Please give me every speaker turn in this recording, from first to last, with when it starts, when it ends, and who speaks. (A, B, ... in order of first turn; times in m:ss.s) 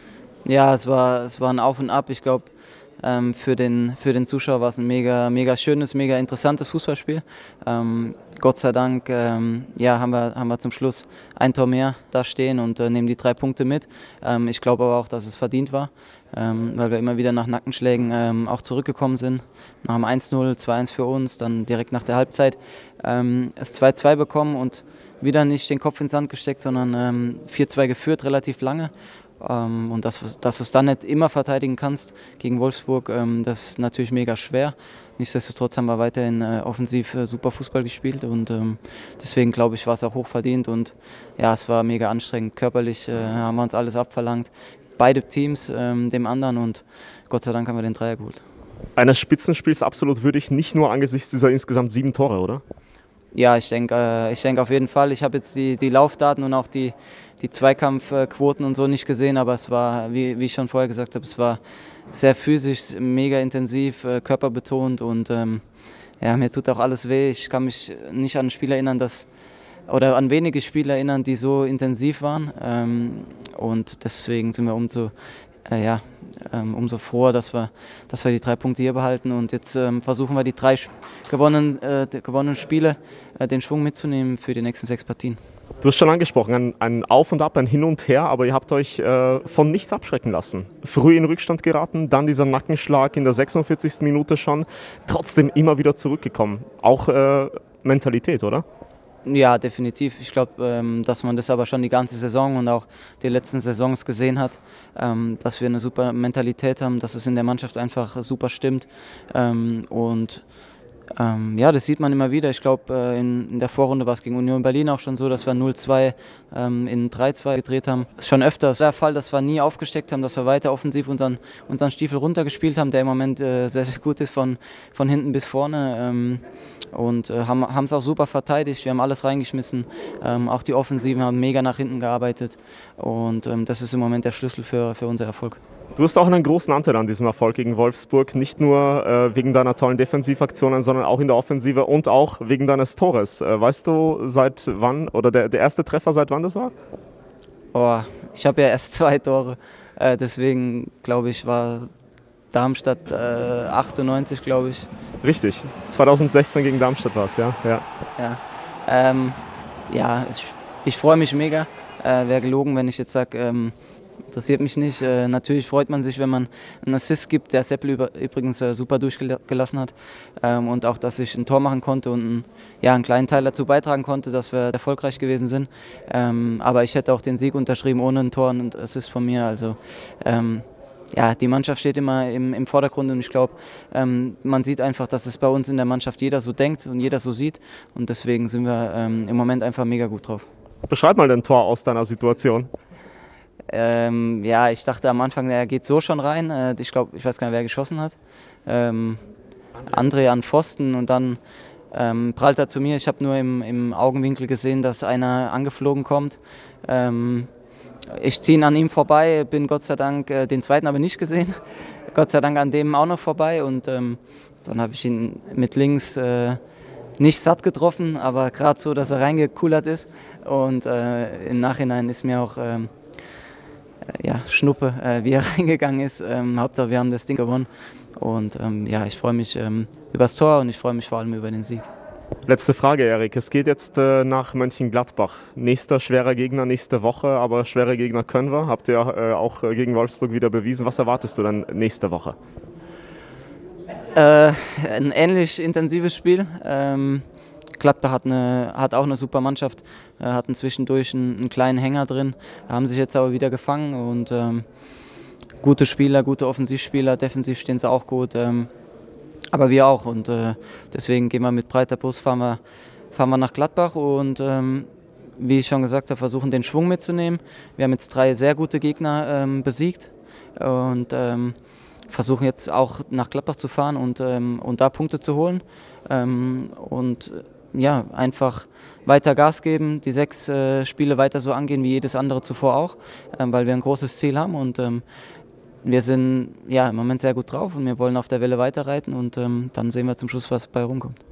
0:00.5-0:02.5 A
0:03.0-0:48.4 A
0:49.0-0:52.6 B
0:53.3-1:01.6 A
1:02.1-1:05.6 A
1:06.2-1:09.3 A
1:09.9-1:15.1 A
1:15.7-1:25.4 A
1:25.8-1:38.6 B
1:39.2-1:50.4 A
1:51.2-2:06.4 A
2:06.9-2:15.6 A
2:16.0-2:26.7 B
2:27.7-2:31.9 A
2:32.5-2:34.9 A
2:35.2-2:37.8 B
2:38.2-2:39.4 A
2:39.9-2:43.8 A
2:44.3-3:10.5 A
3:10.9-3:12.7 B
3:13.7-3:18.2 A
3:18.7-3:19.2 A
3:19.9-3:21.4 A
3:21.9-3:27.5 A
3:28.1-3:36.6 A
3:37.2-3:42.9 A
3:44.1-3:51.9 A
3:52.5-4:02.4 B
4:04.1-4:07.3 A
4:07.8-4:14.7 A
4:15.6-4:18.7 A
4:19.5-4:22.6 A
4:23.1-4:24.9 A
4:25.4-4:31.6 A
4:32.1-4:45.0 A
4:45.8-4:51.2 A